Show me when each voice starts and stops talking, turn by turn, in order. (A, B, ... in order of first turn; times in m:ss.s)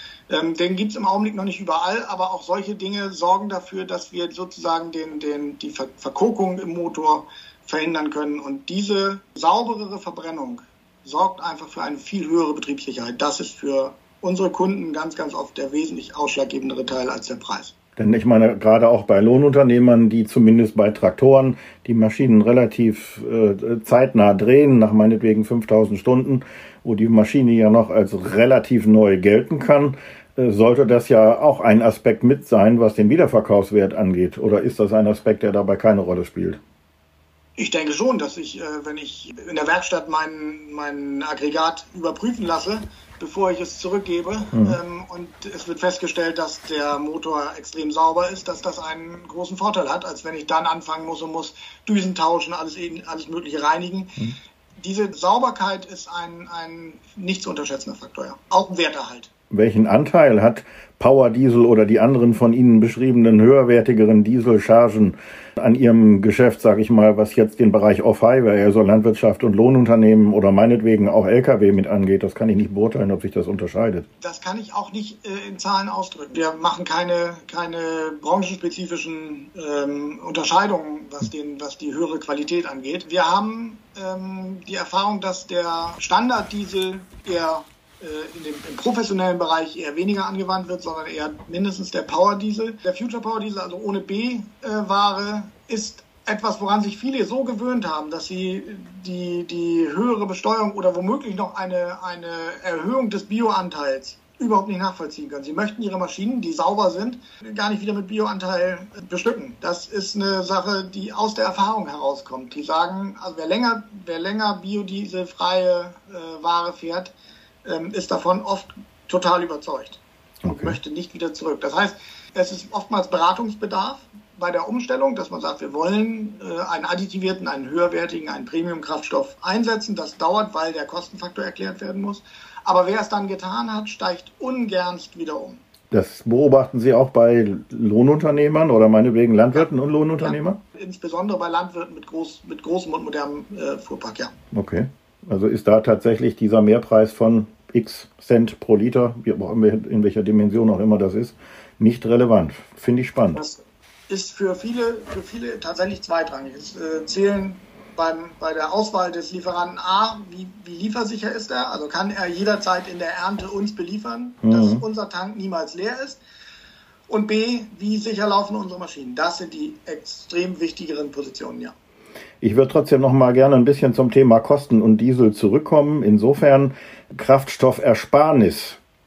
0:00.3-0:17.7 A
0:18.0-0:36.6 B
0:37.6-0:59.3 A
0:44.5-0:44.8 B
0:59.5-1:14.0 B
1:14.2-2:15.6 A
2:00.4-2:00.8 B
2:15.9-2:20.6 B
2:20.2-2:24.3 A
2:24.5-2:33.4 B
2:33.3-2:46.2 A
2:44.4-2:44.8 B
2:47.1-2:51.7 A
2:52.4-2:58.8 B